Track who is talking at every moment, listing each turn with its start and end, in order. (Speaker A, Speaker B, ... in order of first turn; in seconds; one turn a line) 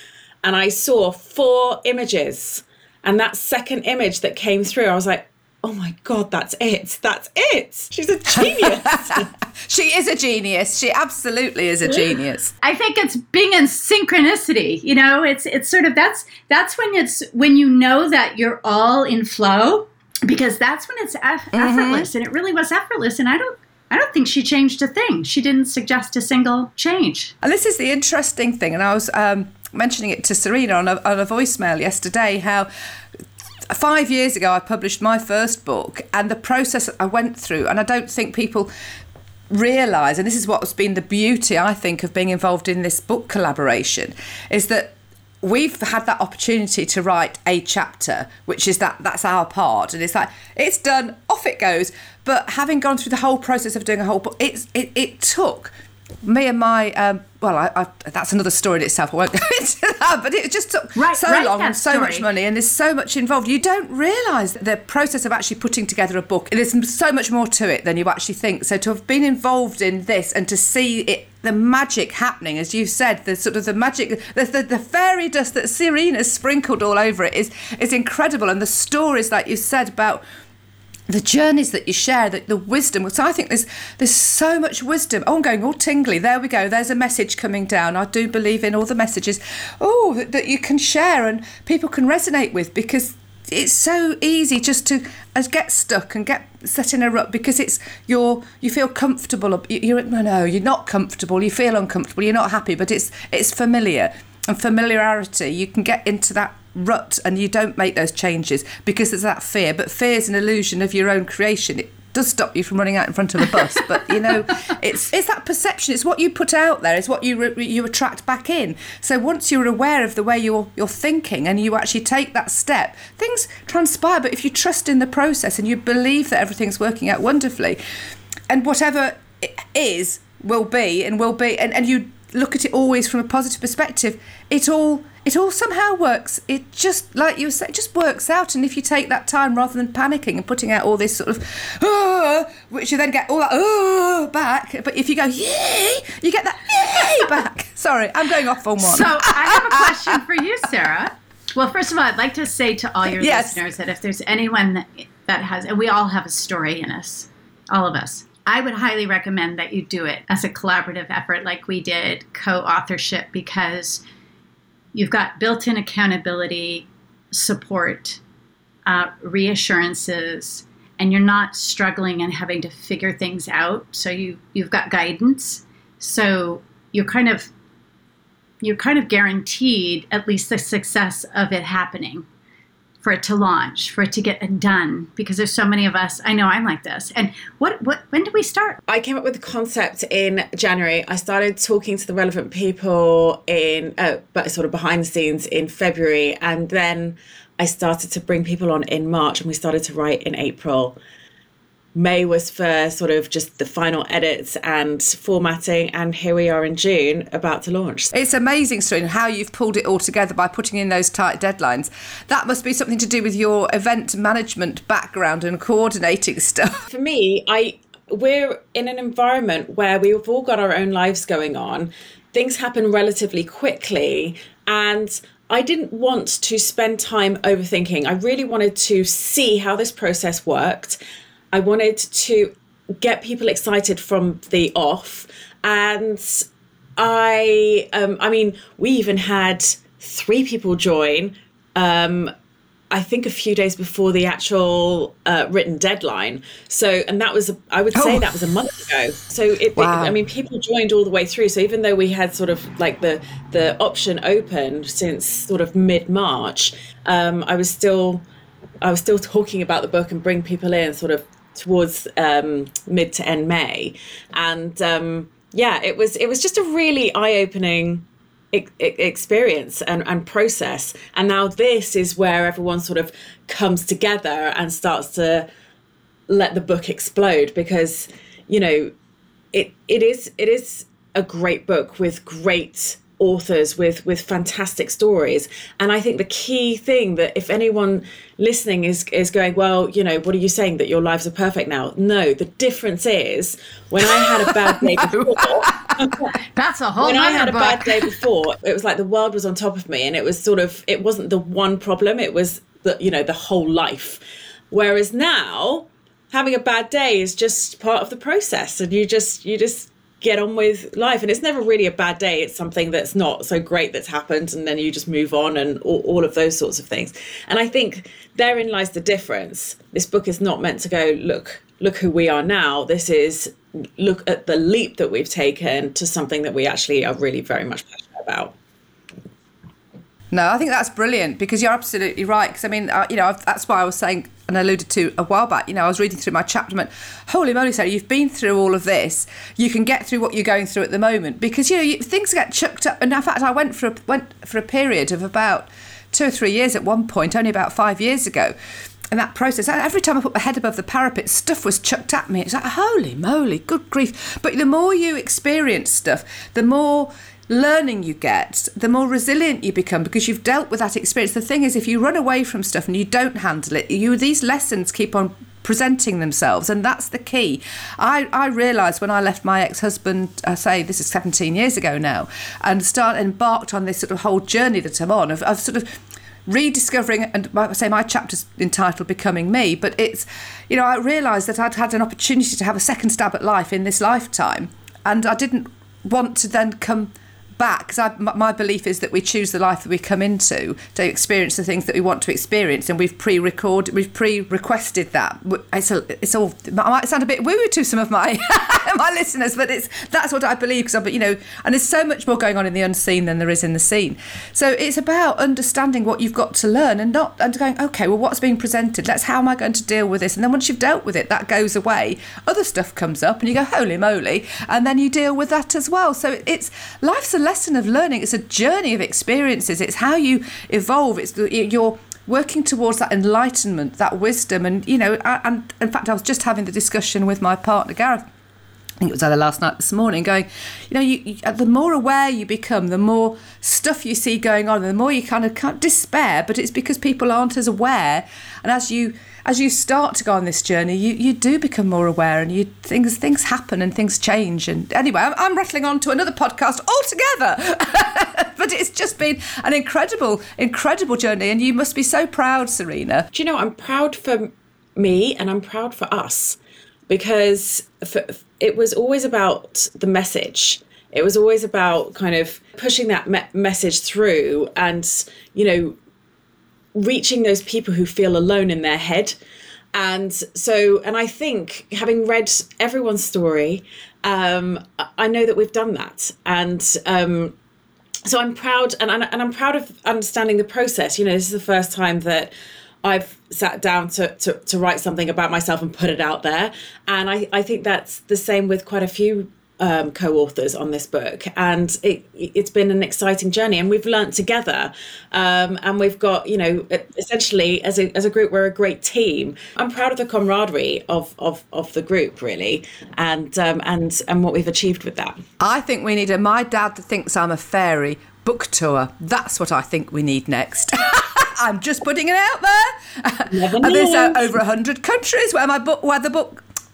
Speaker A: 0.4-9.3
Speaker B: 8.3-12.5
Speaker C: 12.6-27.3
Speaker B: 21.5-22.1
Speaker B: 27.4-32.7
Speaker B: 33.7-38.7
Speaker B: 39.5-55.7
Speaker B: 56.2-80.2
Speaker C: 61.0-62.2
Speaker B: 81.1-127.8
Speaker B: 128.5-150.2
Speaker C: 148.8-164.0
Speaker B: 153.1-153.6
Speaker C: 164.9-168.2
Speaker C: 168.9-177.5
Speaker C: 178.6-182.3
Speaker C: 183.0-188.8
Speaker A: 188.9-201.0
Speaker A: 201.9-208.1
Speaker B: 208.1-216.8
Speaker A: 216.9-231.0
Speaker A: 231.5-236.5
Speaker A: 237.0-242.3
Speaker A: 242.9-258.2
Speaker B: 247.9-248.5
Speaker B: 249.8-250.2
Speaker A: 258.8-275.5
Speaker A: 276.3-278.9
Speaker A: 279.5-296.4
Speaker B: 294.0-296.1
Speaker C: 296.5-297.9
Speaker A: 297.0-328.5
Speaker B: 330.3-348.5
Speaker B: 349.1-375.9
Speaker B: 376.5-428.2
Speaker B: 429.0-453.3
Speaker A: 453.3-466.0
Speaker A: 466.9-469.4
Speaker A: 469.9-477.5
Speaker A: 478.3-482.5
Speaker A: 483.0-505.4
Speaker B: 505.6-516.6
Speaker A: 513.5-514.5